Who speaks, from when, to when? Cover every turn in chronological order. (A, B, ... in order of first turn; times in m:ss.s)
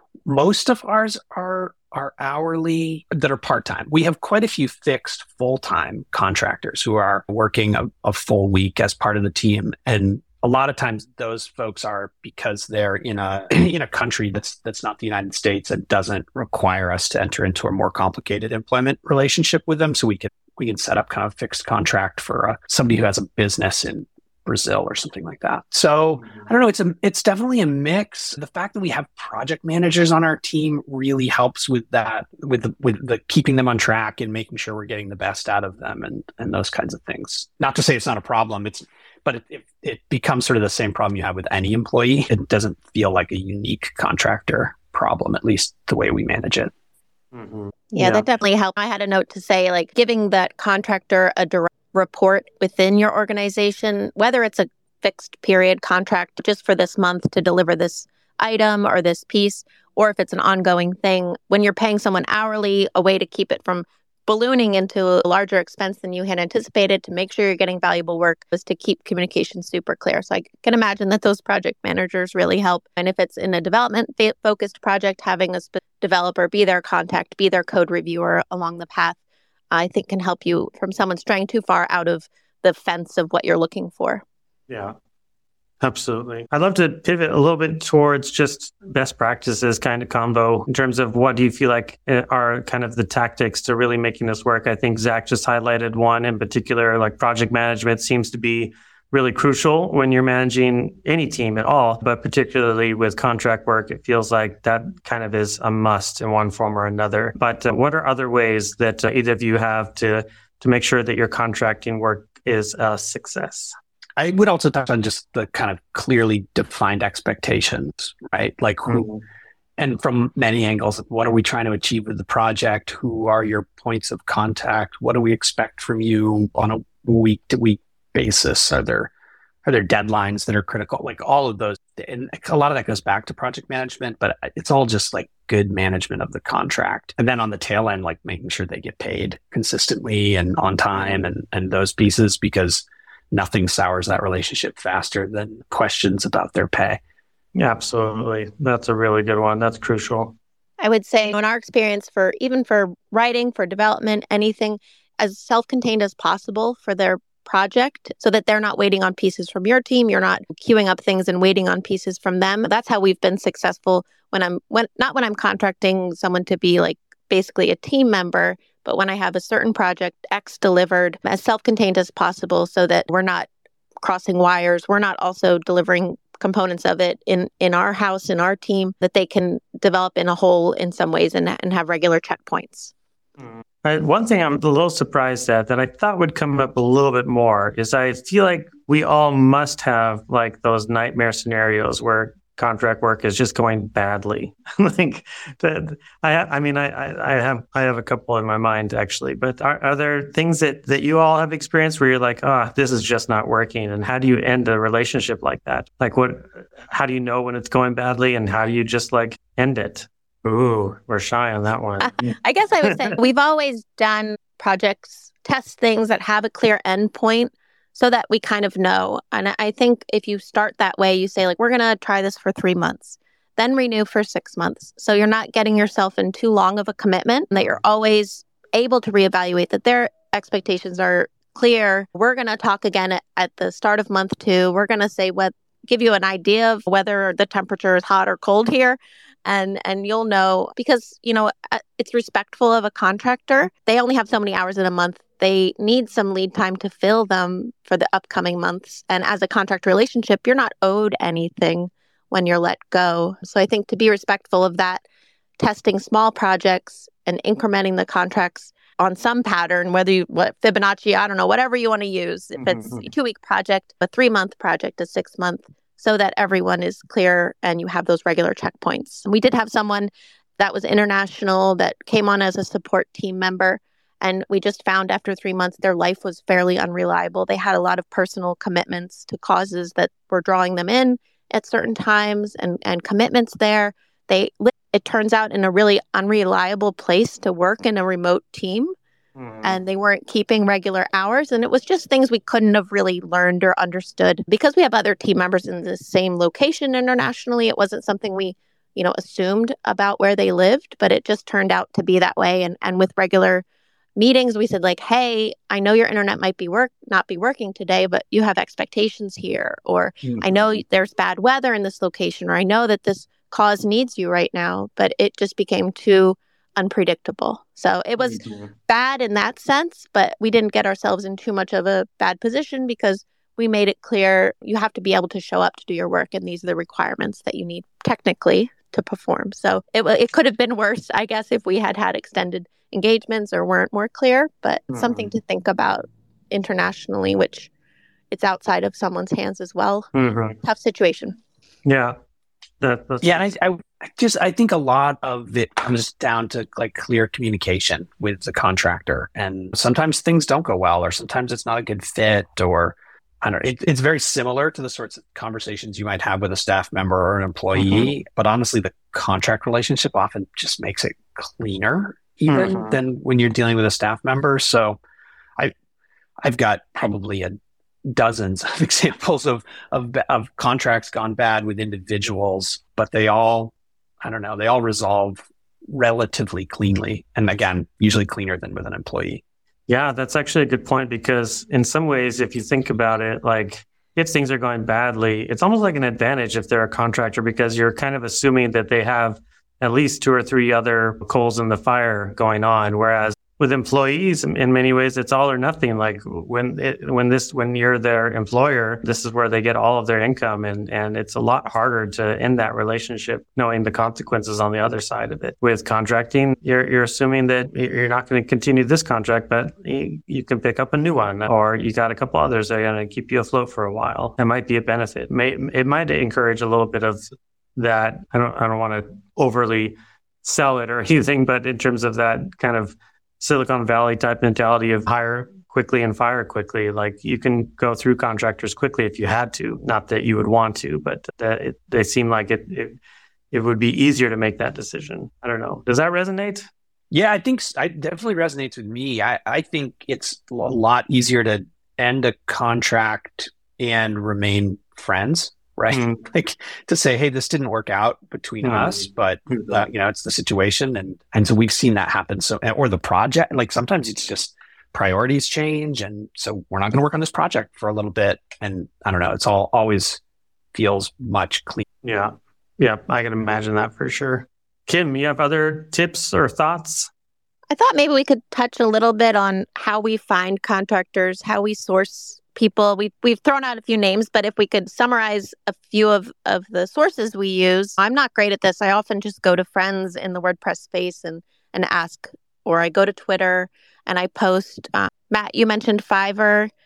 0:00.2-0:46.7 A
0:47.3-0:48.3 B
0:47.9-1:19.2 C
1:19.7-1:24.2 C
1:24.7-1:25.0 B
1:25.8-1:53.7 B
1:54.2-1:59.1 A
1:58.9-1:59.2 B
1:59.8-2:09.1 A
2:09.6-2:27.0 A
2:21.0-2:21.2 B
2:27.6-2:30.4 B
2:30.8-2:53.5 C
2:54.0-3:02.9 C
3:03.4-3:33.2 B
3:32.0-4:15.0 C
4:15.6-4:48.9 C
4:22.6-4:23.1 B
4:49.4-4:49.8 B
4:49.6-5:03.6 C
5:04.2-5:37.7 C
5:10.2-5:10.8 B
5:18.2-5:18.7 B
5:34.9-5:35.3 B
5:38.3-5:40.1 C
5:40.2-5:40.6 B
5:40.6-5:41.4 C
5:41.8-5:42.2 B
5:42.8-5:43.4 B
5:43.2-6:05.0 A
5:57.8-5:58.1 B
6:02.5-6:03.0 B
6:06.4-6:07.6 A
6:08.1-6:19.4 A
6:19.9-7:13.0 B
7:13.5-7:16.7 B
7:17.1-7:40.2 A
7:25.9-7:26.2 B
7:28.6-7:29.8 B
7:40.7-7:41.9 A
7:42.0-7:47.1 B
7:47.7-8:06.7 C